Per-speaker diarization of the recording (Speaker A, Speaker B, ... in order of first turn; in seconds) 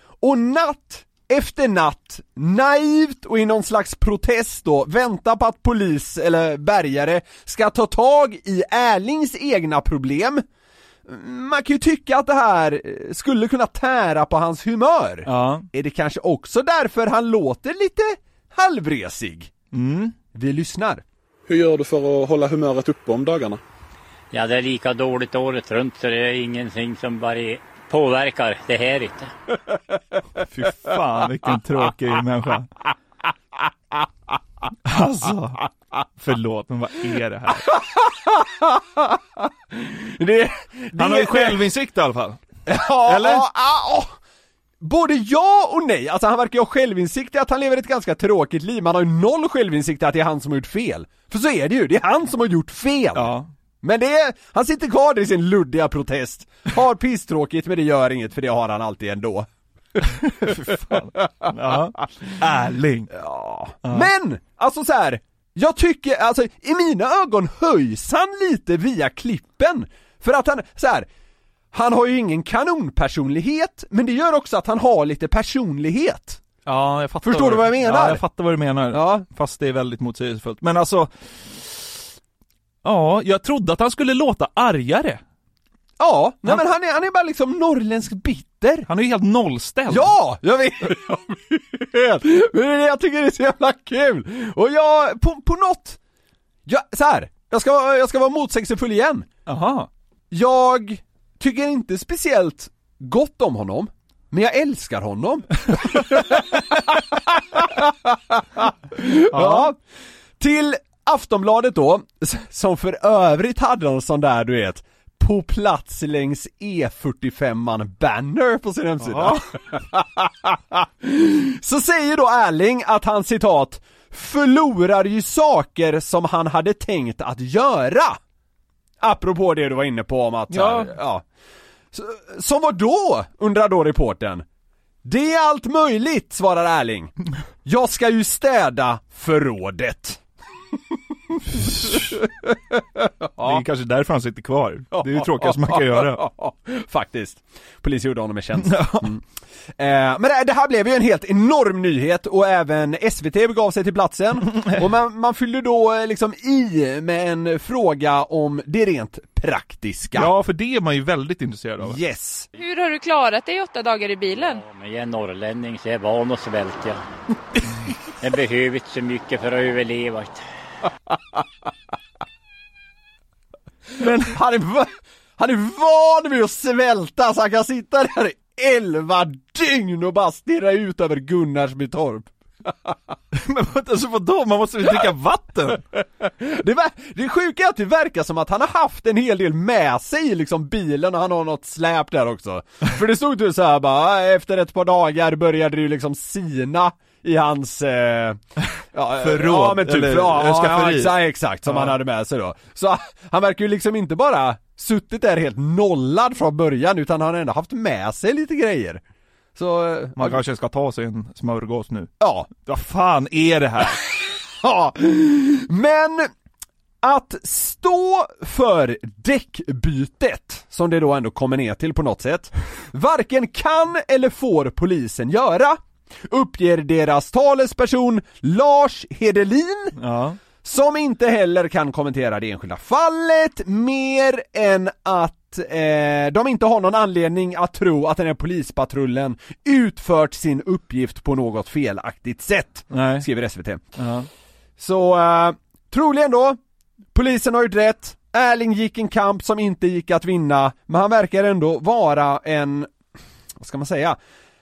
Speaker A: 0.2-10.4, 11.1-19.5, 20.3-21.0, 37.7-41.6, 42.7-44.1, 44.8-53.3, 53.8-59.5, 63.1-71.1, 71.7-76.5, 77.2-78.2, 78.9-79.2, 86.0-88.9, 89.9-96.0, 96.7-99.3, 100.3-109.8, 110.4-128.2, 129.0-131.2, 131.9-134.4, 135.0-137.1, 137.7-140.2, 141.9-143.6, 144.9-149.2, 149.8-160.3, 161.8-162.5, 174.0-182.9, 186.2-198.4, 198.9-209.0, 209.6-210.4, 212.2-212.5, 214.5-216.3, 217.0-229.9, 230.6-243.9, 244.8-246.6, 247.1-252.9, 253.6-254.2
Speaker B: 15.3-15.7, 19.7-20.2, 30.4-32.7, 34.9-35.6, 36.2-37.7, 41.0-42.4, 43.0-43.5, 53.1-53.5, 60.1-63.1, 63.9-64.1, 76.7-81.1, 82.8-85.2, 88.9-90.1, 99.5-99.9, 109.3-109.7, 119.0-119.5, 130.5-130.9, 141.6-142.1, 143.4-146.3, 148.6-149.1, 160.2-162.0, 183.3-185.8, 199.2-201.2, 201.7-201.9, 210.2-214.0, 230.0-230.4, 242.9-243.3, 244.0-244.3
Speaker C: 21.5-23.6
Speaker D: 24.3-29.3, 164.3-167.0, 168.2-170.4
Speaker E: 162.6-164.6